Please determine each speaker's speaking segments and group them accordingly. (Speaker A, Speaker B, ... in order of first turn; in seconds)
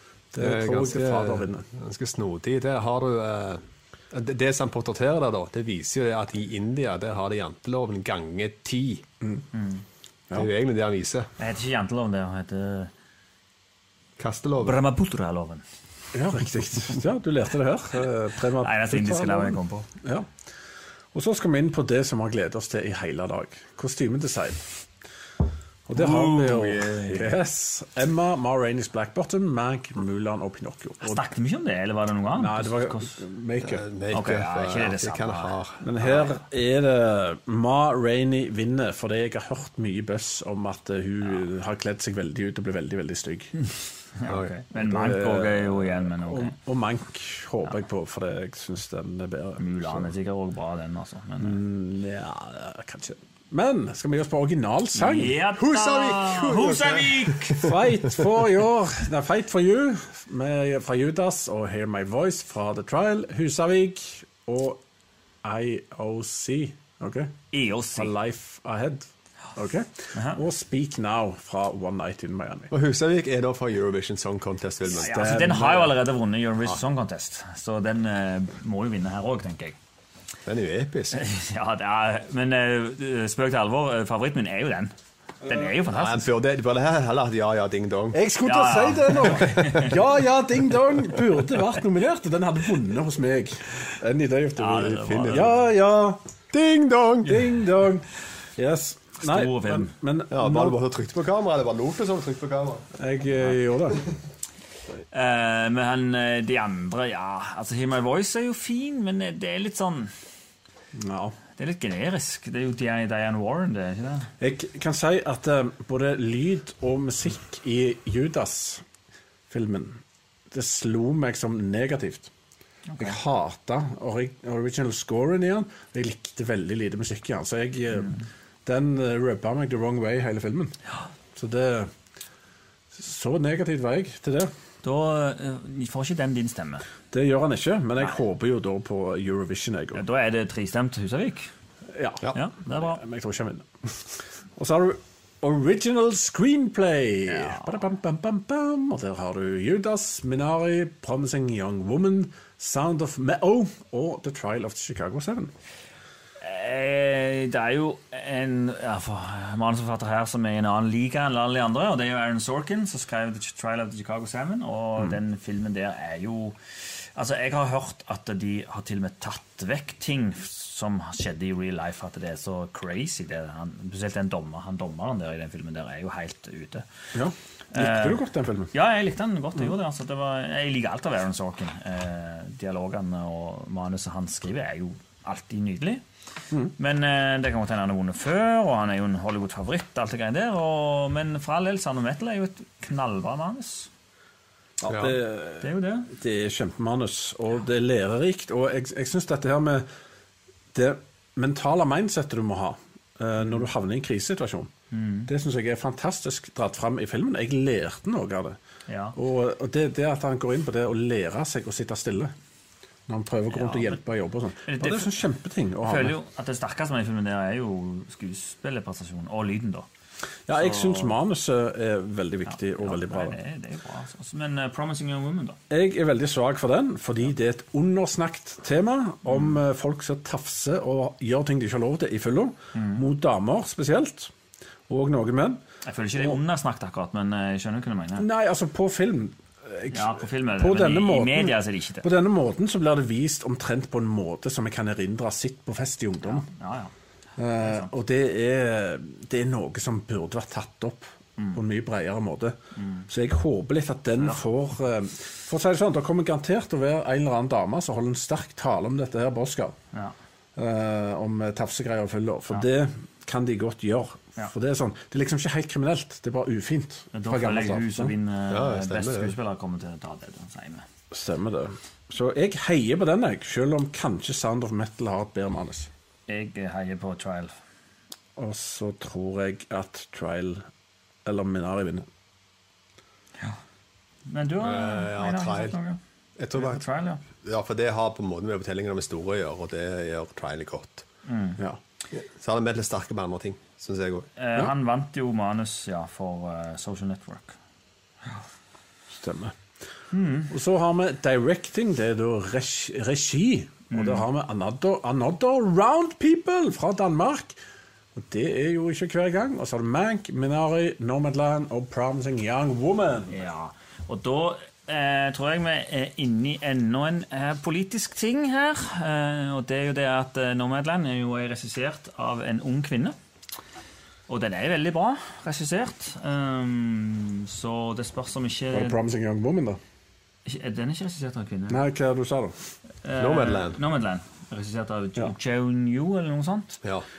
Speaker A: 0.3-1.6, 16.1-20.3, 21.1-24.7, 25.9-31.2, 32.3-33.8, 35.8-43.5, 44.7-50.1, 51.4-55.4, 57.6-64.8, 65.4-67.3, 67.9-69.0, 69.5-72.7, 74.9-76.0, 88.1-96.2, 97.2-100.8, 103.0-104.0, 110.9-111.4, 114.4-118.8, 119.5-122.3, 123.0-130.7, 131.3-131.9, 132.9-134.5, 137.1-140.0, 141.9-155.5, 177.1-178.7, 194.8-199.8, 200.7-204.7, 205.3-208.6, 209.1-212.3, 213.1-216.1, 220.5-223.4, 225.7-234.3, 234.9-235.6, 238.2-246.5, 247.4-252.6, 253.1-259.8, 260.6-268.1, 271.1-275.9, 278.4-280.6, 281.2-282.1, 299.1-299.6, 300.5-307.6, 308.1-313.4, 328.7-329.8, 331.7-332.5
Speaker B: 0.4-9.0, 10.3-11.3, 14.2-14.8, 25.9-27.3, 33.6-36.3, 44.2-44.5, 55.5-58.1, 72.7-75.4, 80.5-81.2, 85.9-88.2, 89.3-89.9, 94.8-95.5, 96.5-97.5, 100.3-102.9, 194.8-195.2, 268.5-269.3, 284.6-285.7, 286.4-286.8, 287.4-291.0, 292.1-294.3, 333.1-333.8
Speaker C: 9.5-9.8, 11.4-12.9, 14.6-15.6, 18.6-19.9, 31.0-33.2, 34.1-35.6, 44.2-46.5, 49.6-51.6, 54.9-57.7, 67.5-68.1, 70.1-70.4, 74.9-79.8, 81.1-86.3, 88.4-89.9, 94.6-95.5, 99.2-99.9, 105.1-110.1, 111.6-114.3, 122.9-123.2, 134.8-136.9, 139.9-141.5, 142.3-143.0, 147.3-147.8, 156.4-166.6, 167.1-176.8, 177.7-186.0, 186.8-193.9, 195.6-196.1, 204.9-205.3, 208.9-209.2, 213.5-214.0, 214.6-215.2, 215.8-219.9, 220.5-221.2, 222.5-225.6, 229.3-229.6, 232.7-233.0, 235.8-238.3, 239.9-242.1, 246.2-246.9, 247.6-247.9, 252.7-253.1, 267.1-270.9, 276.3-277.5, 284.2-286.0, 286.5-287.2, 291.3-291.6, 294.4-297.6, 300.1-300.5, 303.9-304.2, 313.3-323.1, 324.3-329.0, 330.4-331.8, 333.0-336.8